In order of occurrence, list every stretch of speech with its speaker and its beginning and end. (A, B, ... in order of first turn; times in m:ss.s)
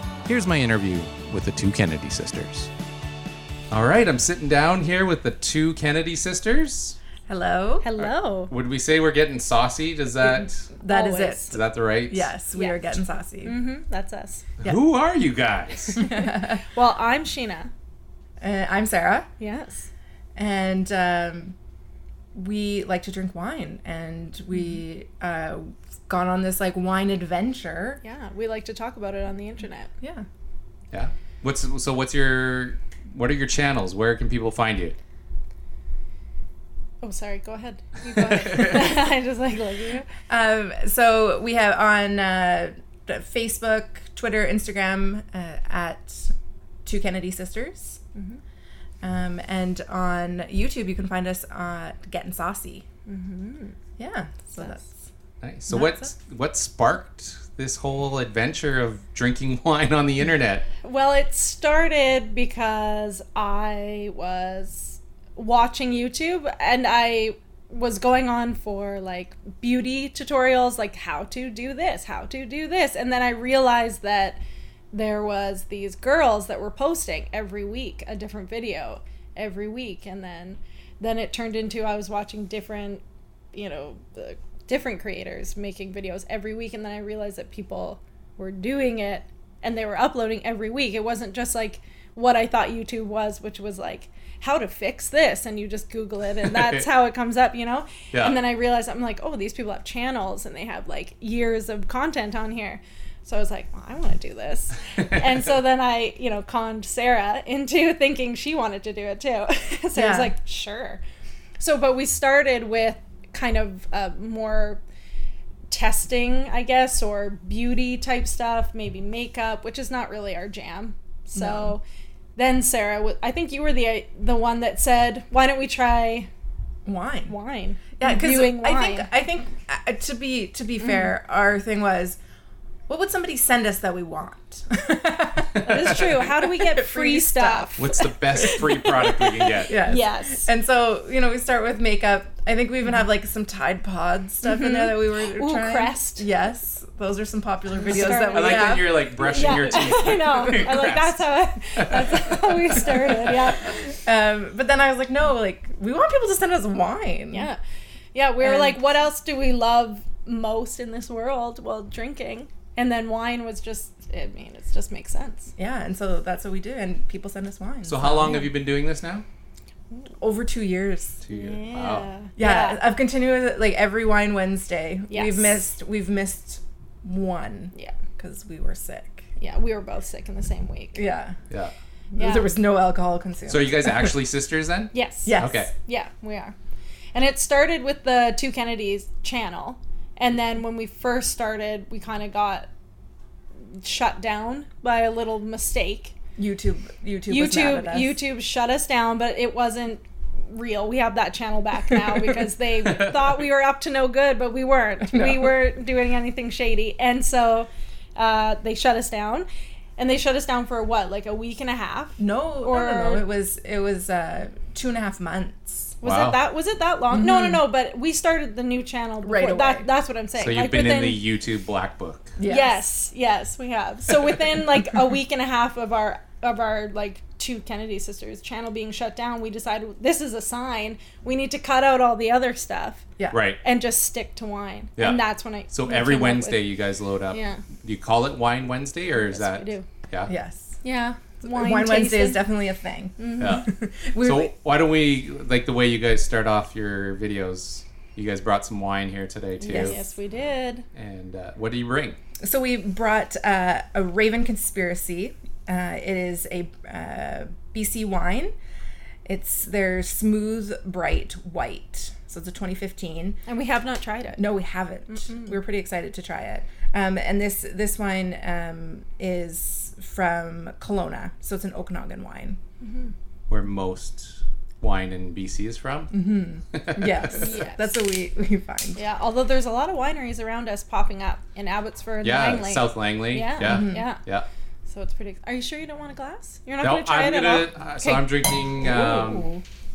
0:00.3-0:02.7 A
0:03.7-0:07.0 A
0:07.3-0:07.9 B
0:07.8-0:08.5 C
0:08.0-0:10.7 A
0:10.2-0:13.6 B
0:10.9-0:11.5 C
0:11.5-0:12.3 A
0:12.5-0:12.8 C
0:13.4-0:14.6 C
0:14.6-0:16.1 A
0:16.0-0:16.6 B
0:16.0-0:17.7 C
0:18.4-0:19.3 B
0:19.4-0:19.9 C
0:20.4-0:21.6 B
0:22.3-0:28.0 B
0:28.0-0:29.9 C
0:30.0-0:30.3 B
0:30.9-0:35.0 A
0:37.0-0:40.1 C
0:38.2-0:38.8 A
0:40.3-0:46.3 B
0:46.8-0:48.0 B
0:48.2-0:48.4 C
0:49.0-0:52.8 B
0:53.1-0:53.8 C
0:54.0-0:55.0 B
0:55.4-1:00.7 A
0:55.7-0:56.1 B
1:00.8-1:14.4 C
1:14.9-1:23.0 C
1:23.5-1:51.0 C
1:36.4-1:36.8 A
1:38.1-1:38.4 A
1:50.0-1:50.3 B
1:51.6-1:54.8 C
1:55.7-2:01.8 C
2:01.3-2:01.8 B
2:02.4-2:06.3 C
2:06.9-2:07.4 B
2:07.3-2:09.1 C
2:08.0-2:12.2 B
2:10.8-2:11.1 C
2:12.9-2:18.6 B
2:15.5-2:16.0 A
2:15.6-2:20.5 C
2:17.8-2:19.8 A
2:19.7-2:29.1 B
2:24.4-2:26.3 C
2:27.8-2:33.8 C
2:28.3-2:32.8 A
2:33.7-2:37.5 B
2:37.3-2:37.6 C
2:38.1-2:45.5 C
2:38.4-2:38.8 B
2:45.6-2:48.5 B
2:47.9-2:49.2 A
2:50.2-2:51.2 B
2:51.2-2:52.1 A
2:51.3-2:52.8 C
2:52.4-2:59.3 B
2:55.1-2:55.6 C
2:59.4-3:01.0 C
3:00.9-3:01.4 B
3:02.1-3:04.1 B
3:02.2-3:02.5 C
3:03.5-3:05.7 A
3:04.9-3:06.6 C
3:05.3-3:05.7 B
3:07.1-3:12.7 C
3:13.7-3:16.2 C
3:16.4-3:18.2 B
3:17.3-3:33.3 C
3:25.1-3:25.5 B
3:32.2-3:36.0 B
3:36.0-3:41.3 C
3:36.0-3:36.4 A
3:37.1-3:37.6 B
3:39.2-3:39.9 B
3:40.4-3:42.4 A
3:42.4-3:42.8 B
3:42.4-3:56.7 C
3:53.3-3:53.6 A
3:55.0-4:00.3 A
3:57.3-3:57.6 C
3:59.1-3:59.9 C
4:00.3-4:00.8 B
4:00.8-4:02.5 C
4:01.4-4:04.5 B
4:03.2-4:03.7 C
4:03.4-4:03.7 A
4:04.2-4:10.0 A
4:09.6-4:10.9 C
4:09.7-4:10.0 B
4:10.9-4:12.2 A
4:12.4-4:18.5 B
4:19.2-4:23.4 B
4:23.5-4:24.5 C
4:24.4-4:32.6 B
4:25.1-4:25.5 C
4:32.8-4:33.1 C
4:33.5-4:36.1 A
4:36.1-4:39.0 B
4:36.7-4:37.4 A
4:37.3-4:37.9 C
4:39.0-4:44.2 C
4:42.2-4:44.5 A
4:43.6-4:44.0 B
4:44.9-4:48.4 C
4:46.8-4:49.5 A
4:48.8-4:49.6 B